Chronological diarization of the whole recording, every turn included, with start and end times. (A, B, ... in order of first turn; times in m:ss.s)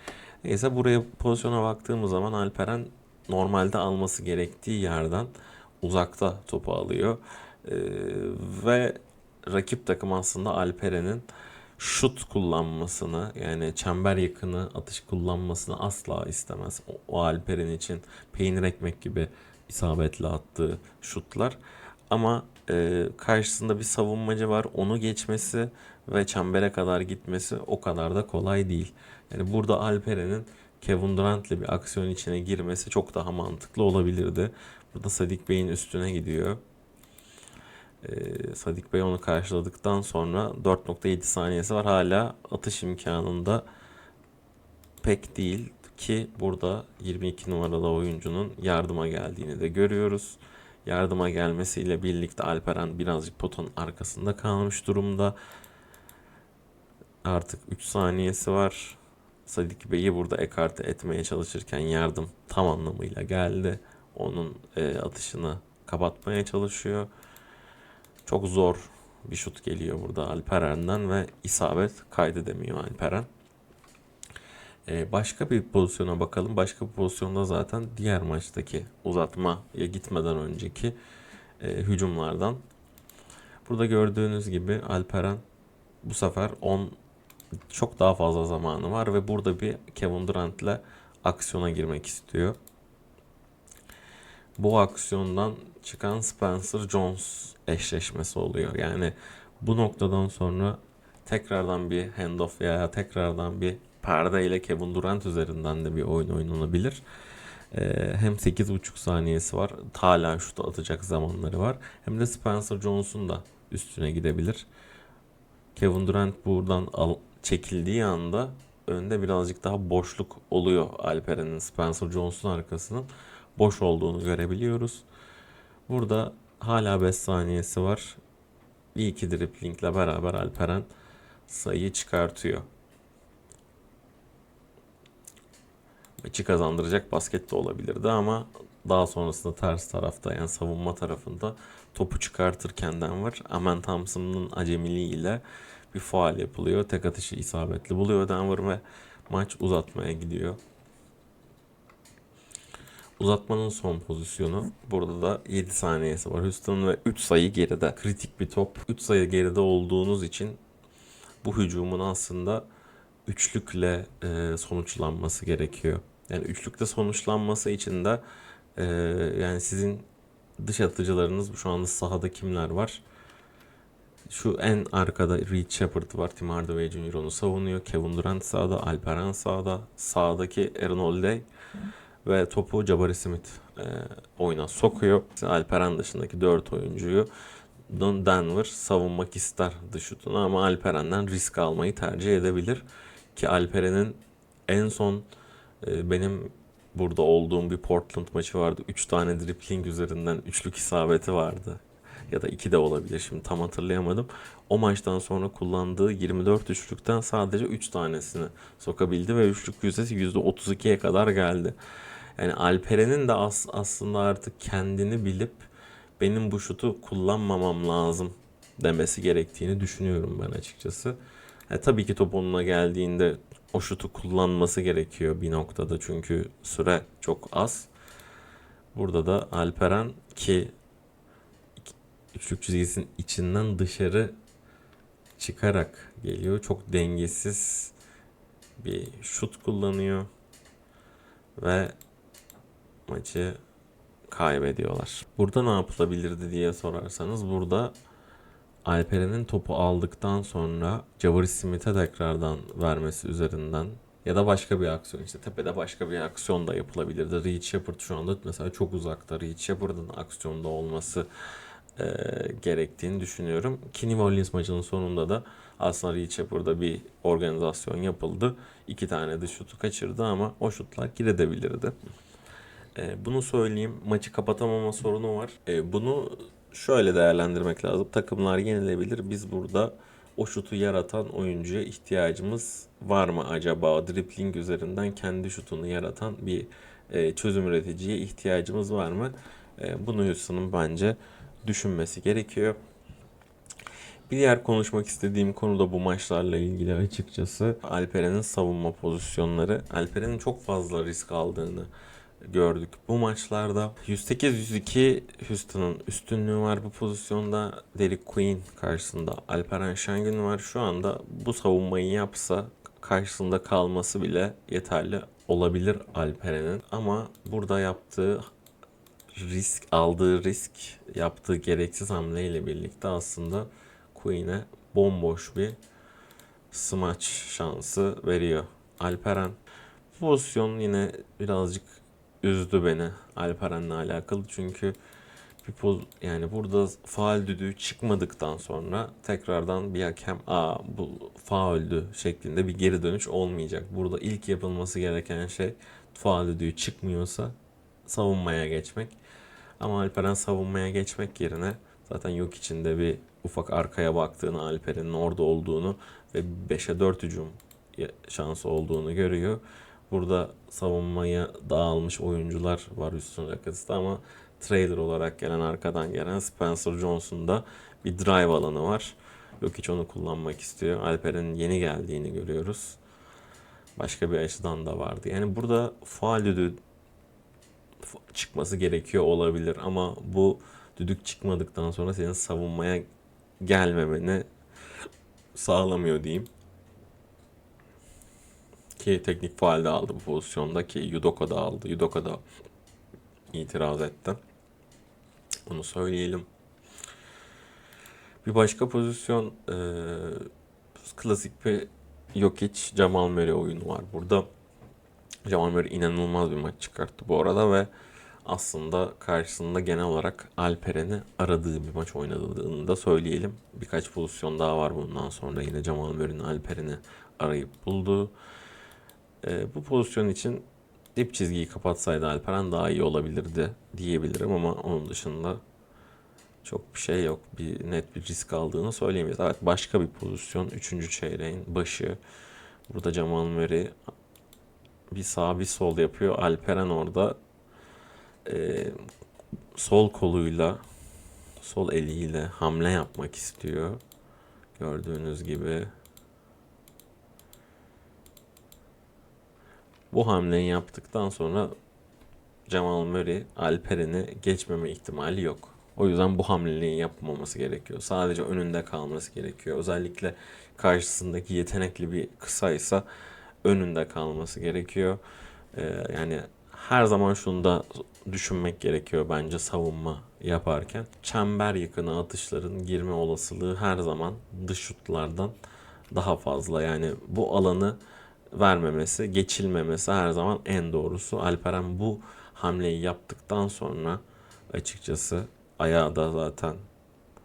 0:00.4-0:11.3 A
0:11.8-0:21.6 A
0:22.1-0:36.6 A
0:38.0-0:43.6 A
0:45.0-0:55.4 A
0:57.2-1:07.1 A
1:08.3-1:13.3 A
1:14.9-1:21.0 A
1:21.6-1:22.6 A
1:23.6-1:25.4 A
1:26.0-1:27.0 A
1:27.7-1:32.6 A
1:34.6-1:47.0 A
1:47.7-1:54.7 A
1:55.8-2:05.1 A
2:05.9-2:08.2 A
2:09.0-2:10.9 A
2:11.5-2:12.7 A
2:16.2-2:30.6 A
2:33.2-2:40.6 A
2:41.4-2:42.7 A
2:43.3-2:48.2 A
2:48.8-2:50.1 A
2:50.6-2:53.0 A
2:54.3-3:01.5 A
3:02.2-3:07.3 A
3:07.9-3:15.3 A
3:15.8-3:31.8 A
3:32.4-3:41.2 A
3:41.7-3:47.9 A
3:48.9-3:50.7 A
3:51.8-3:54.4 A
3:55.4-3:57.9 A
3:58.8-4:00.3 A
4:01.6-4:02.0 A
4:03.1-4:03.6 A
4:04.3-4:08.0 A
4:08.8-4:21.3 A
4:22.0-4:32.0 A
4:33.0-4:52.8 A
4:54.3-5:01.9 A
5:02.4-5:18.4 A
5:19.3-5:25.8 A
5:26.7-5:29.6 A
5:30.1-5:35.0 A
5:35.6-5:49.2 A
5:49.8-6:13.0 A
6:14.0-6:16.8 A
6:18.1-6:23.1 A
6:23.6-6:24.5 A
6:25.6-6:26.5 A
6:29.0-6:32.4 A
6:33.5-6:34.4 A
6:35.7-6:36.5 A
6:38.4-6:40.5 A
6:41.0-6:44.5 A
6:45.4-6:47.9 A
6:48.4-6:58.3 A
6:59.4-7:05.6 A
7:06.6-7:12.2 A
7:12.9-7:14.0 A
7:15.1-7:17.4 A
7:18.4-7:19.0 A
7:19.8-7:20.8 A
7:21.6-7:24.0 A
7:24.8-7:25.9 A
7:30.1-7:31.8 A
7:32.7-7:43.0 A
7:43.6-7:45.2 A
7:45.7-7:55.6 A
7:56.1-7:58.0 A
7:58.5-8:06.8 A